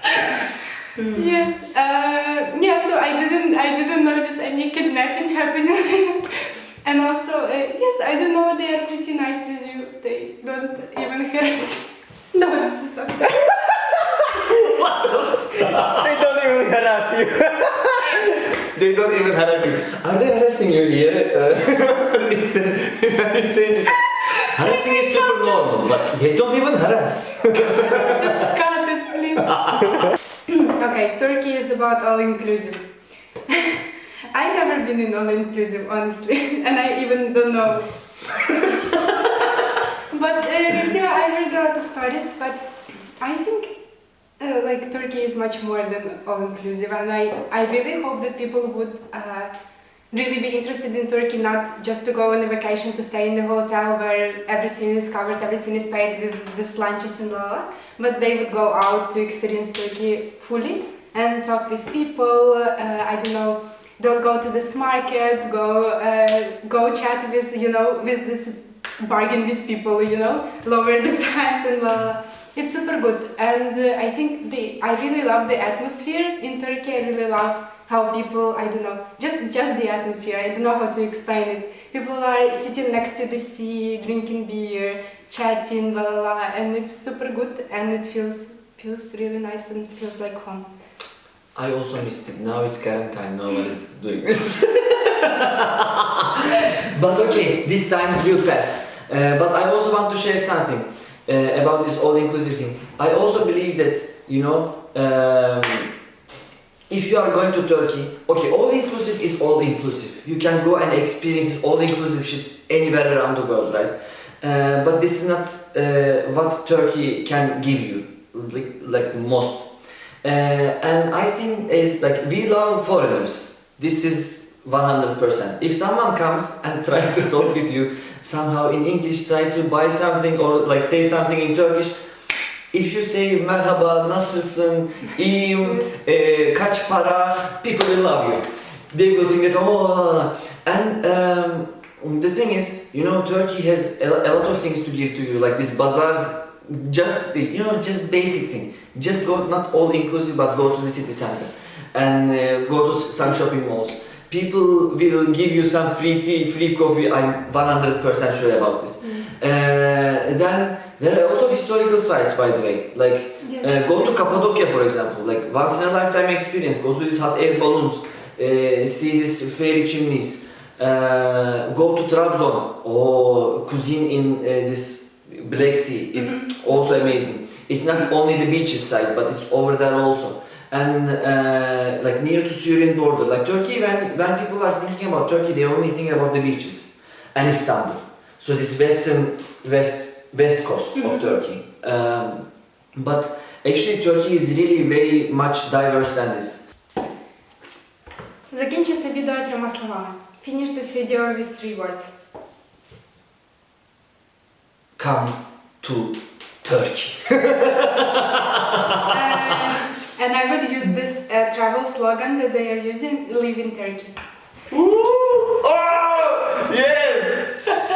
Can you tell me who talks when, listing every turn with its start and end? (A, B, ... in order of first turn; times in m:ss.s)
0:01.1-0:14.2 A
0:14.2-0:16.1 B
0:15.8-0:18.1 C
0:18.3-0:28.5 B
0:24.4-0:25.6 A
0:27.6-0:29.6 A
0:29.5-0:30.0 B
0:30.5-0:32.8 A
0:33.5-0:37.9 A
0:40.1-0:42.6 A
0:43.2-0:43.8 A
0:44.4-0:49.5 A
0:50.1-1:30.6 A
1:31.6-1:45.9 B
1:46.9-1:59.7 B
2:00.2-2:12.0 B
2:12.7-3:16.6 B
2:43.4-2:44.6 A
2:56.2-2:56.6 A
3:11.0-3:11.4 A
3:18.5-3:22.1 A
3:25.0-3:29.6 B
3:29.1-3:34.2 A
3:34.7-3:37.6 B